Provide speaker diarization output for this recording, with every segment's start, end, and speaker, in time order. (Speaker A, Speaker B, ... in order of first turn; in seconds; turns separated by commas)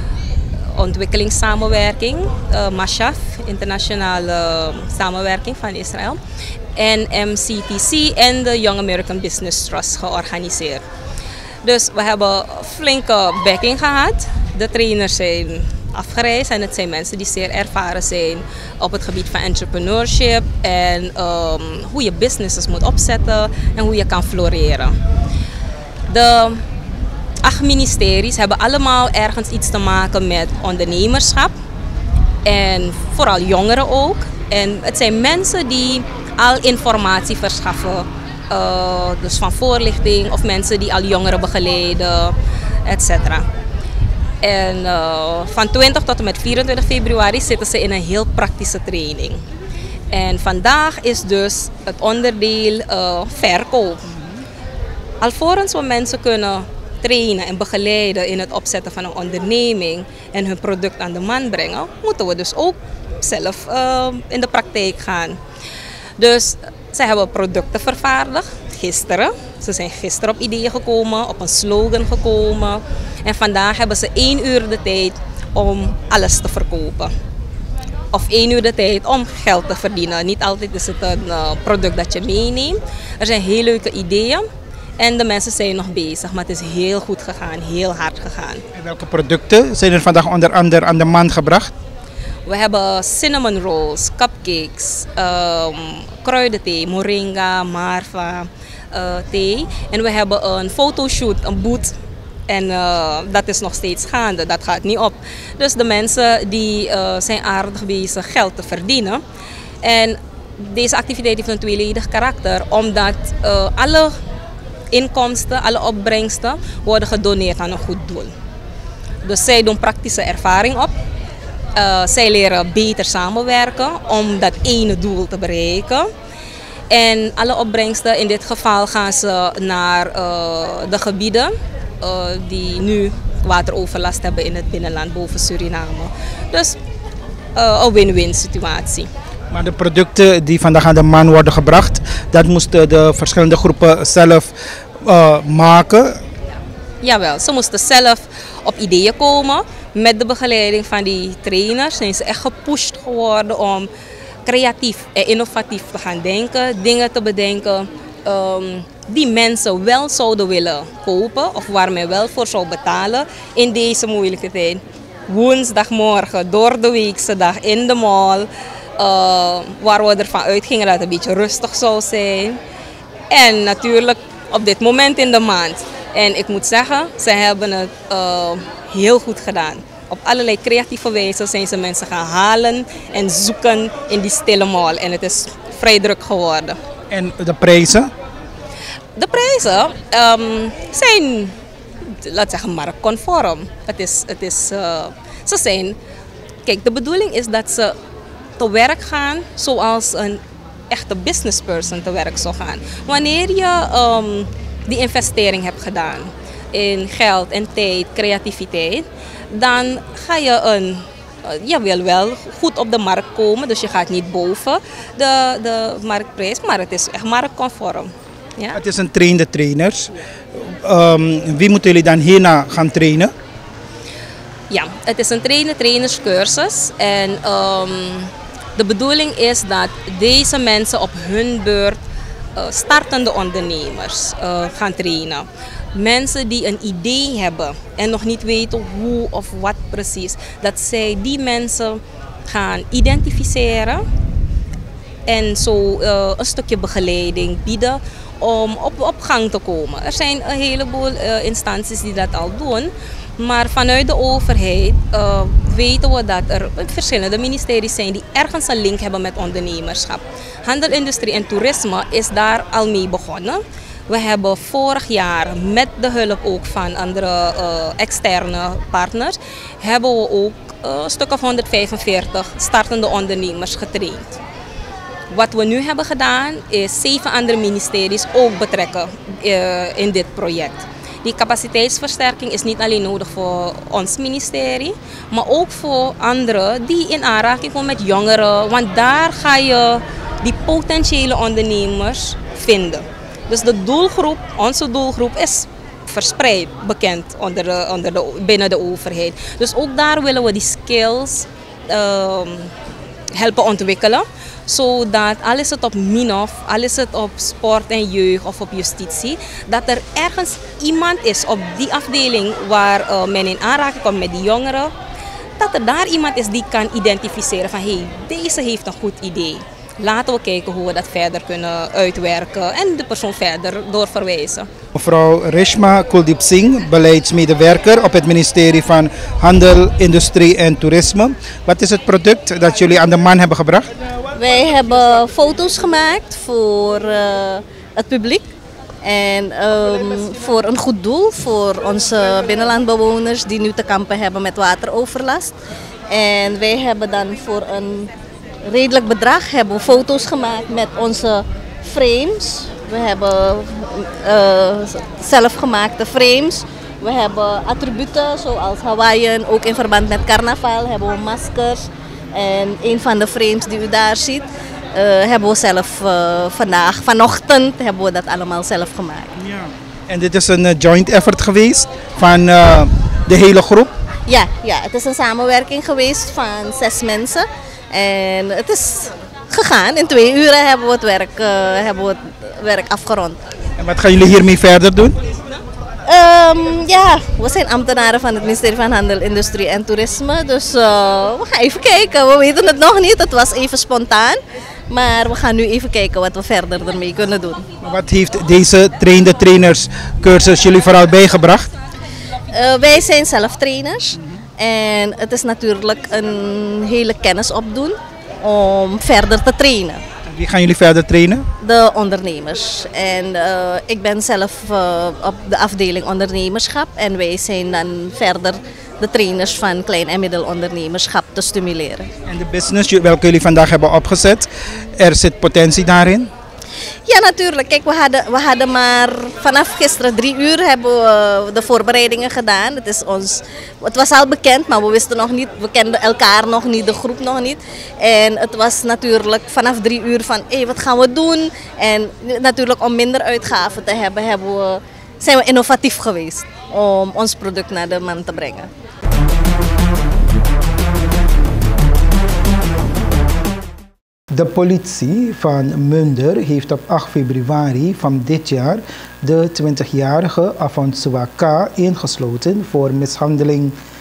Speaker A: 0.7-6.2, Speaker A: 6.8-10.8, Speaker A: 11.6-24.9, Speaker A: 26.1-26.6, Speaker A: 27.4-31.5, Speaker A: 32.4-43.5, Speaker A: 44.4-49.4, Speaker A: 50.1-54.1, Speaker A: 55.2-65.4, Speaker A: 66.2-77.1, Speaker A: 78.1-84.4, Speaker A: 85.0-88.6, Speaker B: 88.7-91.7, Speaker A: 92.5-101.9, Speaker A: 102.5-109.2, Speaker A: 109.8-114.1, Speaker A: 114.9-118.3, Speaker A: 119.2-120.9, Speaker A: 121.8-126.1, Speaker A: 126.9-136.8, Speaker A: 137.6-139.1, Speaker B: 139.5-146.2, Speaker A: 147.0-153.9, Speaker A: 154.4-172.6, Speaker A: 173.3-186.8, Speaker B: 187.1-188.1, Speaker A: 189.2-195.9, Speaker A: 196.6-197.9, Speaker A: 198.6-218.8, Speaker B: 218.7-223.3, Speaker A: 224.7-232.0, Speaker A: 232.6-244.0, Speaker A: 245.3-274.4, Speaker A: 275.3-302.7, Speaker A: 303.3-314.9, Speaker A: 315.6-324.7, Speaker B: 324.9-333.9, Speaker C: 334.3-338.5, Speaker C: 339.0-345.5, Speaker C: 346.1-348.1, Speaker C: 348.6-369.3, Speaker B: 369.4-373.9, Speaker C: 374.3-383.4, Speaker B: 383.8-385.2, Speaker C: 386.0-394.4, Speaker C: 394.9-397.6, Speaker B: 397.8-401.7, Speaker C: 402.5-410.0, Speaker B: 410.3-411.5, Speaker C: 411.6-422.1, Speaker B: 422.3-426.3, Speaker C: 427.0-448.7, Speaker B: 454.3-463.8